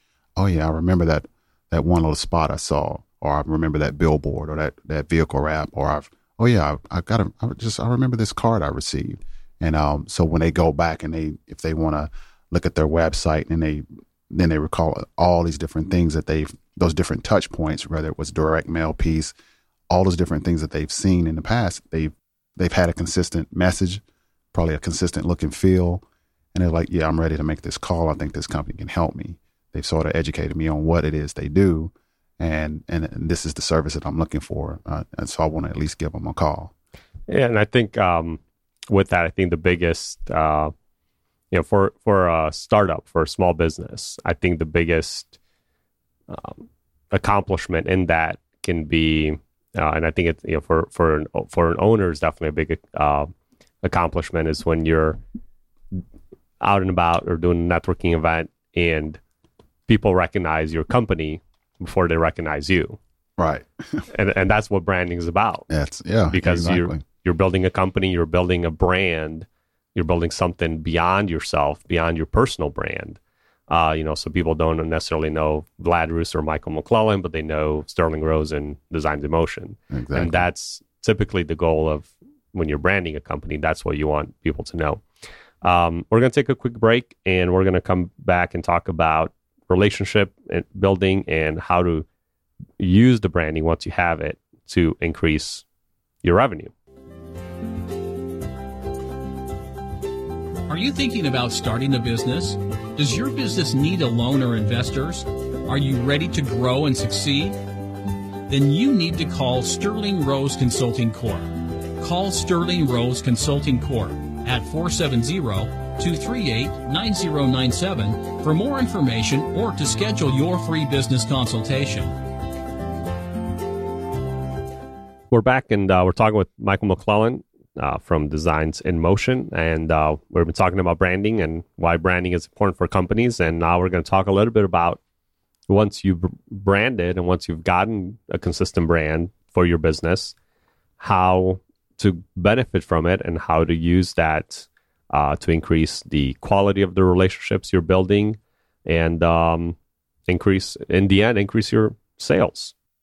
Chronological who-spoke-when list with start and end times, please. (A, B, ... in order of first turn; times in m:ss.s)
0:00.4-0:19.3 A
0:19.9-0:24.0 A
0:24.5-0:26.0 A
0:26.5-0:36.7 A
0:37.3-0:40.7 B
0:41.5-0:45.3 B
0:46.3-0:53.3 B
0:53.8-0:55.2 B
0:56.6-0:59.2 B
0:59.9-1:03.0 B
1:03.4-1:04.0 A
1:04.1-1:05.7 B
1:05.7-1:07.0 A
1:06.3-1:25.0 B
1:19.9-1:20.5 A
1:25.6-1:32.1 B
1:32.8-1:35.6 B
1:36.2-1:36.7 B
1:40.7-1:47.6 C
1:48.5-2:02.1 C
2:05.3-2:15.0 B
2:15.7-2:20.4 B
2:21.0-2:29.8 B
2:30.3-2:32.7 B